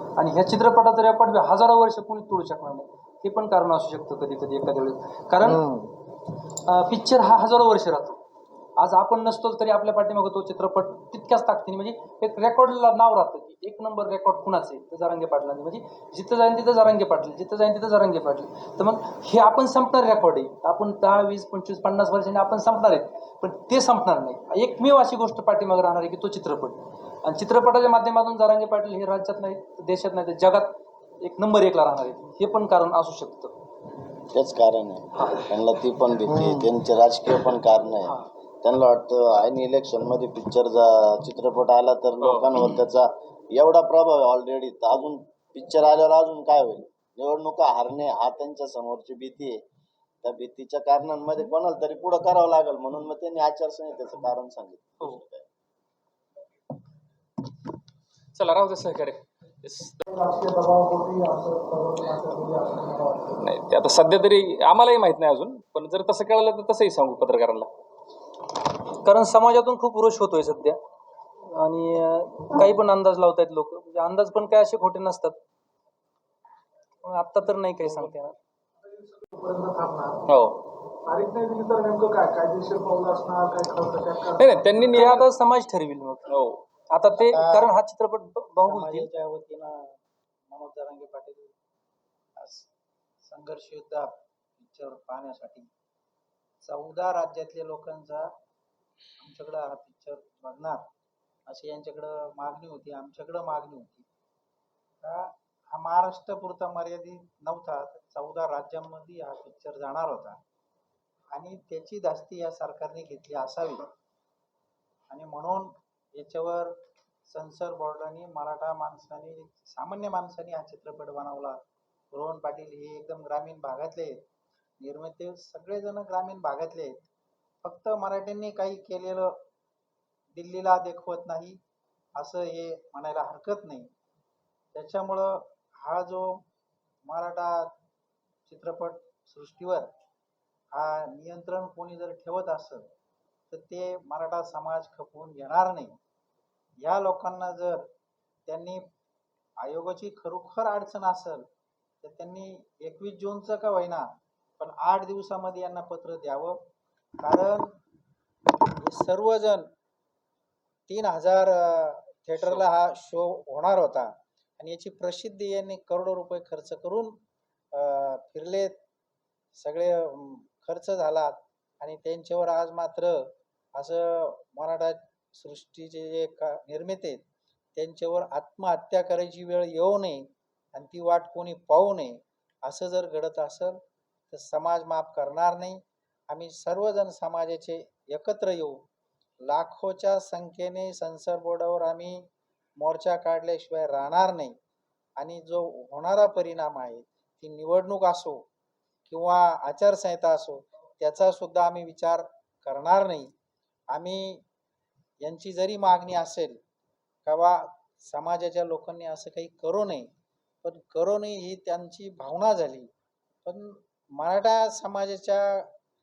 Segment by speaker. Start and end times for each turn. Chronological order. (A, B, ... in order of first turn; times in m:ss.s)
0:00.2-0:05.6 A
0:05.4-0:05.9 B
0:06.6-0:08.2 A
0:08.8-0:33.5 A
0:34.3-0:49.6 C
0:35.2-0:35.4 A
0:36.3-0:36.7 B
0:42.2-0:42.6 D
0:50.2-0:55.5 C
0:58.4-1:00.1 D
1:00.1-1:03.3 E
1:03.4-1:07.7 D
1:08.9-1:10.8 A
1:11.4-1:15.4 A
1:17.0-1:18.4 A
1:19.0-1:20.2 E
1:20.3-1:20.6 D
1:21.1-1:25.0 E
1:24.4-1:25.3 D
1:24.9-1:26.3 A
1:26.3-1:26.6 D
1:26.9-1:29.1 A
1:27.2-1:27.7 B
1:28.7-1:31.5 B
1:32.4-1:32.7 B
1:33.2-1:35.7 B
1:36.6-1:38.3 B
1:39.2-1:40.9 B
1:41.5-1:44.1 B
1:45.0-1:50.4 B
1:51.3-1:53.8 B
1:55.1-1:56.8 B
1:57.3-2:01.6 B
2:02.1-2:04.2 B
2:04.8-2:07.0 B
2:07.6-2:09.4 B
2:10.4-2:11.6 B
2:12.2-2:13.9 B
2:14.7-2:16.4 B
2:17.1-2:17.7 B
2:18.5-2:19.9 B
2:20.8-2:22.9 B
2:23.5-2:26.0 B
2:26.8-2:27.9 B
2:28.5-2:28.9 B
2:29.6-2:31.5 B
2:32.0-2:34.0 B
2:34.6-2:36.6 B
2:37.2-2:37.7 B
2:38.8-2:39.7 B
2:40.9-2:47.2 B
2:47.7-2:48.8 B
2:49.5-2:57.2 B
2:57.8-3:03.8 B
3:04.3-3:08.8 B
3:09.5-3:12.3 B
3:12.8-3:14.6 B
3:15.2-3:18.4 B
3:19.1-3:23.3 B
3:23.9-3:24.4 B
3:25.2-3:26.6 B
3:27.3-3:30.1 B
3:30.6-3:32.9 B
3:33.4-3:35.7 B